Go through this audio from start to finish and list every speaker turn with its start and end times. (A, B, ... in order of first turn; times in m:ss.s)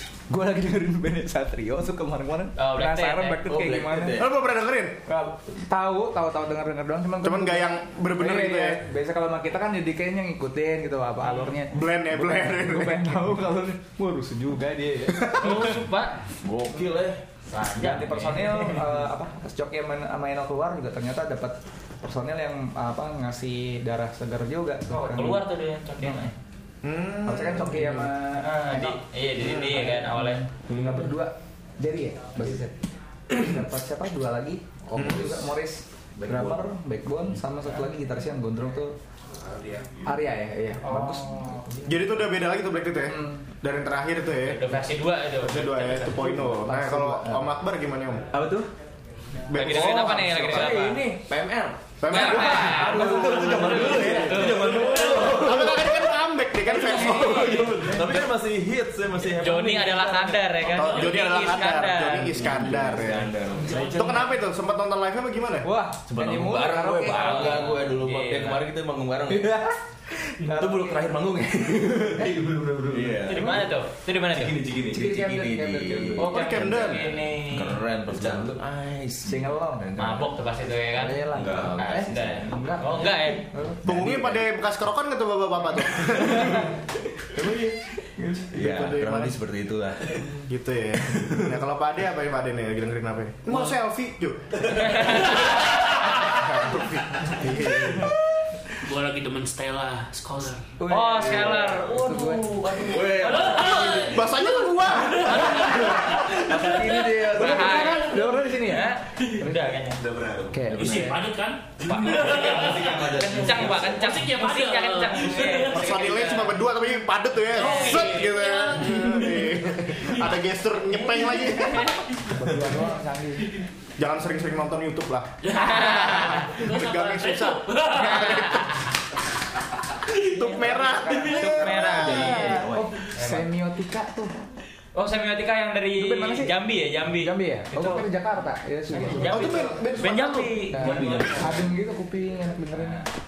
0:00.3-0:04.2 A
0:02.6-0:03.4 B
0:03.4-0:04.3 C
0:04.2-0:05.0 D
0:05.1-0:07.7 A
0:07.2-0:08.8 D
0:08.2-0:15.7 A
0:11.7-0:13.3 D
0:15.1-0:15.7 D
0:15.4-0:16.2 B
0:16.4-0:17.2 C
0:17.5-0:19.0 B
0:17.8-0:25.4 A
0:24.9-0:26.3 B
0:26.8-0:28.0 D
0:27.2-0:32.7 A
0:28.4-0:30.4 B
0:30.7-0:31.1 C
0:33.3-0:39.0 A
0:35.0-0:35.3 D
0:35.0-0:35.4 C
0:36.2-0:36.6 C
0:40.0-0:42.0 A
0:40.8-0:41.6 B
0:41.8-0:44.8 D
0:43.0-0:43.5 A
0:44.4-0:46.1 B
0:45.4-0:48.3 D
0:46.1-0:47.5 A
0:48.3-0:48.7 C
0:49.5-0:50.5 D
0:49.5-0:51.1 B
0:49.6-0:51.2 A
0:50.5-0:56.0 C
0:52.0-0:52.9 D
0:52.1-0:54.9 B
0:52.2-0:55.2 A
0:54.8-0:55.2 E
0:55.2-0:58.0 D
0:57.0-0:58.0 A
0:57.3-1:00.3 C
0:59.3-1:02.4 B
1:00.6-1:03.3 D
1:00.7-1:01.4 E
1:02.4-1:04.0 C
1:03.6-1:04.2 A
1:03.7-1:04.2 E
1:03.9-1:05.7 D
1:05.6-1:07.8 A
1:06.1-1:09.6 C
1:07.1-1:08.6 B
1:09.3-1:09.8 A
1:10.4-1:11.1 A
1:10.4-1:13.6 C
1:12.2-1:13.7 A
1:13.2-1:14.6 B
1:14.3-1:20.3 C
1:14.9-1:16.3 A
1:16.2-1:17.1 D
1:16.2-1:17.8 B
1:19.2-1:19.9 A
1:20.0-1:23.5 B
1:21.0-1:23.9 A
1:21.3-1:22.4 C
1:23.8-1:24.4 C
1:23.8-1:26.7 D
1:26.3-1:26.7 A
1:27.3-1:28.5 A
1:28.5-1:30.3 C
1:28.6-1:29.4 D
1:30.4-1:35.2 D
1:31.1-1:31.5 C
1:34.7-1:35.8 B
1:35.4-1:36.4 E
1:36.2-1:38.1 D
1:38.8-1:40.7 E
1:40.8-1:42.8 A
1:40.9-1:44.0 B
1:42.8-1:44.1 C
1:43.2-1:48.0 E
1:44.0-1:46.1 D
1:45.5-1:45.8 B
1:45.6-1:46.8 C
1:46.1-1:49.7 A
1:47.3-1:50.0 B
1:47.4-1:47.7 C
1:50.1-1:51.1 C
1:50.5-1:51.2 A
1:50.7-1:53.0 E
1:51.8-1:56.6 B
1:52.0-1:54.1 C
1:53.8-1:56.0 E
1:55.6-2:02.0 D
1:57.5-2:00.3 E
1:57.6-1:58.1 B
2:01.6-2:02.0 B
2:02.3-2:03.5 A
2:04.0-2:08.6 D
2:05.4-2:08.7 E
2:05.5-2:06.5 B
2:07.9-2:08.9 B
2:10.1-2:12.6 D
2:10.4-2:12.6 B
2:10.5-2:14.3 A
2:11.9-2:12.9 C
2:13.1-2:13.5 B
2:14.9-2:18.1 B
2:16.0-2:16.6 A
2:17.2-2:19.6 A
2:18.9-2:21.6 B
2:19.3-2:20.6 D
2:20.7-2:23.0 A
2:20.8-2:21.6 C
2:22.8-2:23.0 B